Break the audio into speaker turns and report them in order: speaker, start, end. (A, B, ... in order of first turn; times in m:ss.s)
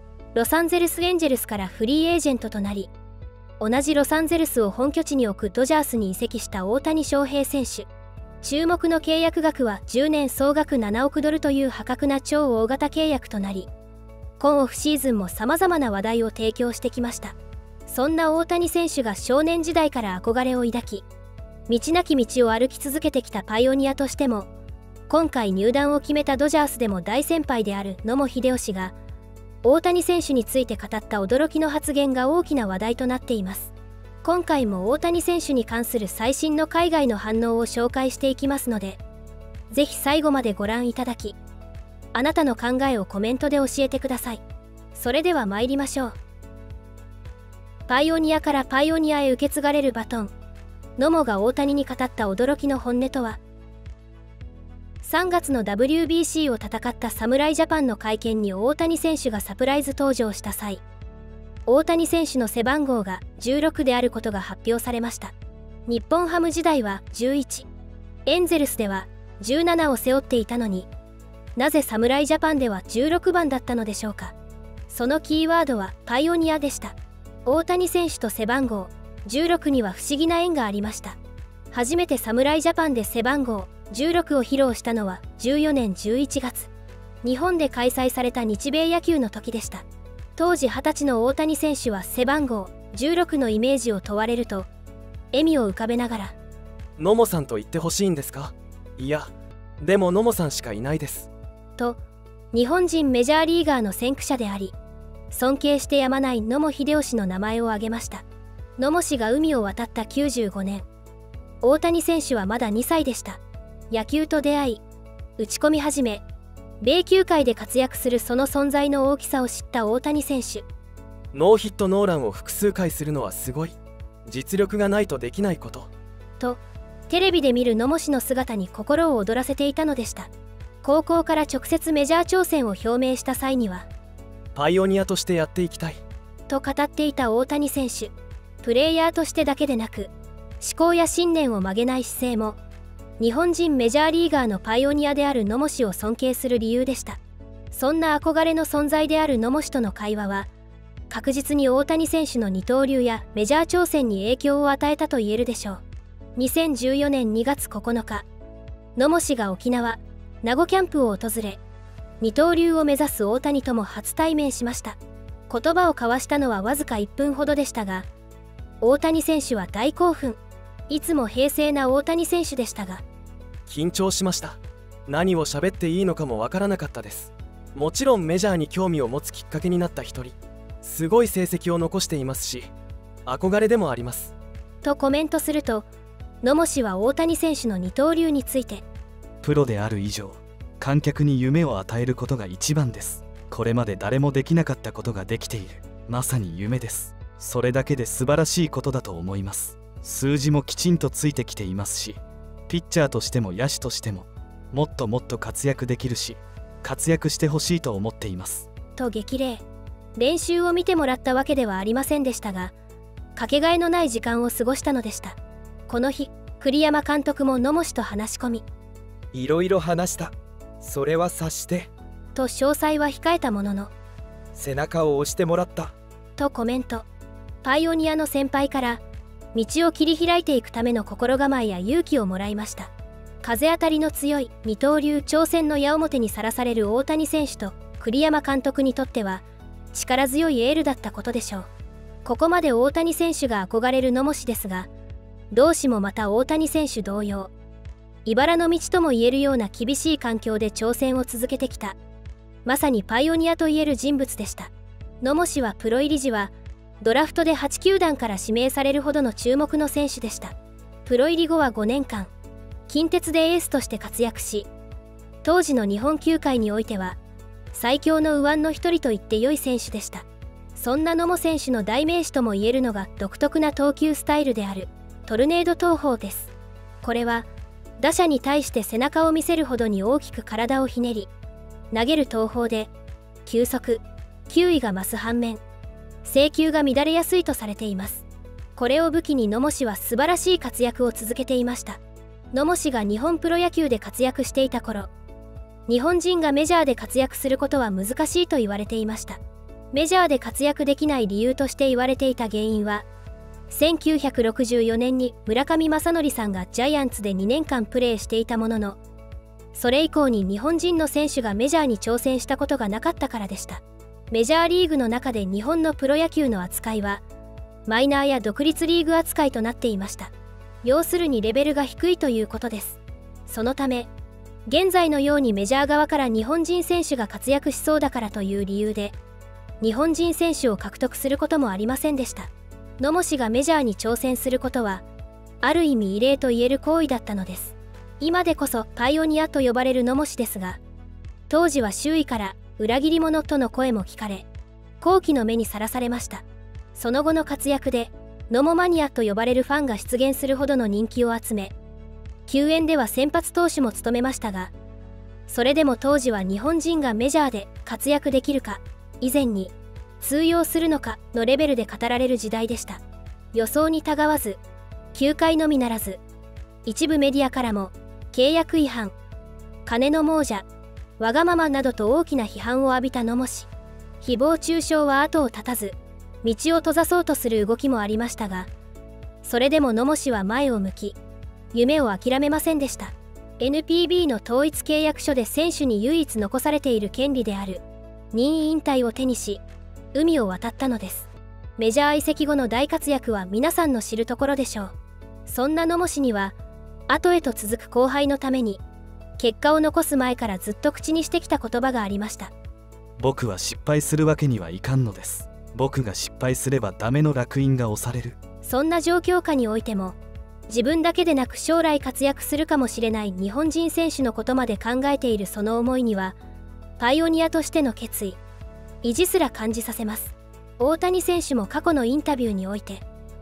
0:00.3-0:02.9 A
0:03.6-0:07.9 A
0:08.4-0:13.7 A
0:14.4-0:17.4 A
0:17.9-0:21.0 A
0:21.7-0:24.5 A
0:25.1-0:28.9 A
0:29.6-0:33.7 A
0:34.2-0:39.0 A
0:39.7-0:41.4 A
0:42.1-0:44.4 A
0:44.9-0:46.2 A
0:47.9-0:50.3 A
0:51.0-0:53.4 A
0:55.0-1:00.8 A
1:01.6-1:05.3 A
1:05.9-1:07.7 A
1:08.2-1:10.9 A
1:11.6-1:14.3 A
1:14.9-1:21.2 A
1:21.7-1:26.7 A
1:27.2-1:29.8 A
1:30.4-1:34.7 A
1:35.3-1:36.3 A
1:37.0-1:41.3 B
1:42.5-1:44.7 A
1:45.3-1:48.2 A
1:48.8-1:50.8 A
1:51.6-1:53.4 A
1:53.9-1:54.8 A
1:55.4-1:56.2 A
1:56.8-2:00.6 A
2:01.3-2:03.8 B
2:04.3-2:05.9 B
2:06.4-2:10.3 A
2:10.8-2:13.9 A
2:14.5-2:16.0 B
2:16.5-2:22.6 A
2:23.2-2:27.2 A
2:27.7-2:30.5 A
2:31.1-2:35.8 A
2:36.4-2:38.2 A
2:39.0-2:41.6 A
2:42.2-2:45.0 A
2:45.5-2:48.1 A
2:48.8-2:53.0 A
2:53.7-3:02.7 B
3:03.3-3:04.3 B
3:04.8-3:05.9 A
3:06.4-3:08.8 A
3:09.4-3:28.7 C
3:29.0-3:29.6 A
3:30.2-3:32.7 A
3:33.4-3:35.4 A
3:35.9-3:38.6 A
3:39.3-3:41.9 D
3:42.3-3:43.9 A
3:44.5-3:45.9 D
3:46.4-3:47.1 A
3:47.6-3:49.0 A
3:49.5-3:52.9 A
3:53.4-4:01.7 A
4:02.2-4:04.9 A
4:05.5-4:07.5 A
4:08.2-4:12.0 A
4:12.6-4:14.7 A
4:15.2-4:20.5 A
4:21.0-4:22.3 A
4:22.9-4:24.7 A
4:25.4-4:27.2 A
4:27.7-4:36.5 A
4:37.0-4:37.5 A
4:38.0-4:41.3 A
4:41.9-4:42.9 A
4:43.4-4:45.6 A
4:46.2-4:48.2 A
4:48.8-4:52.0 A
4:52.5-4:55.1 A
4:55.9-4:59.4 A
4:59.9-5:03.0 A
5:03.7-5:09.0 A
5:09.7-5:17.2 A
5:17.9-5:20.3 A
5:20.8-5:24.1 A
5:24.6-5:29.2 A
5:29.8-5:35.0 A
5:35.6-5:40.8 A
5:41.5-5:44.5 A
5:45.0-5:46.4 A
5:46.9-5:51.7 A
5:52.5-5:54.7 A
5:55.5-6:03.0 A
6:03.5-6:04.6 A
6:05.1-6:06.2 A
6:06.8-6:09.1 A
6:09.8-6:10.6 A
6:11.2-6:13.7 A
6:14.2-6:18.7 A
6:19.4-6:21.2 A
6:21.7-6:29.6 A
6:30.1-6:34.9 A
6:35.4-6:36.5 A
6:37.1-6:38.8 A
6:39.4-6:42.5 A
6:43.2-6:48.4 C
6:48.6-6:50.2 A
6:50.7-6:56.4 A
6:57.0-6:58.4 A
6:59.0-7:03.0 A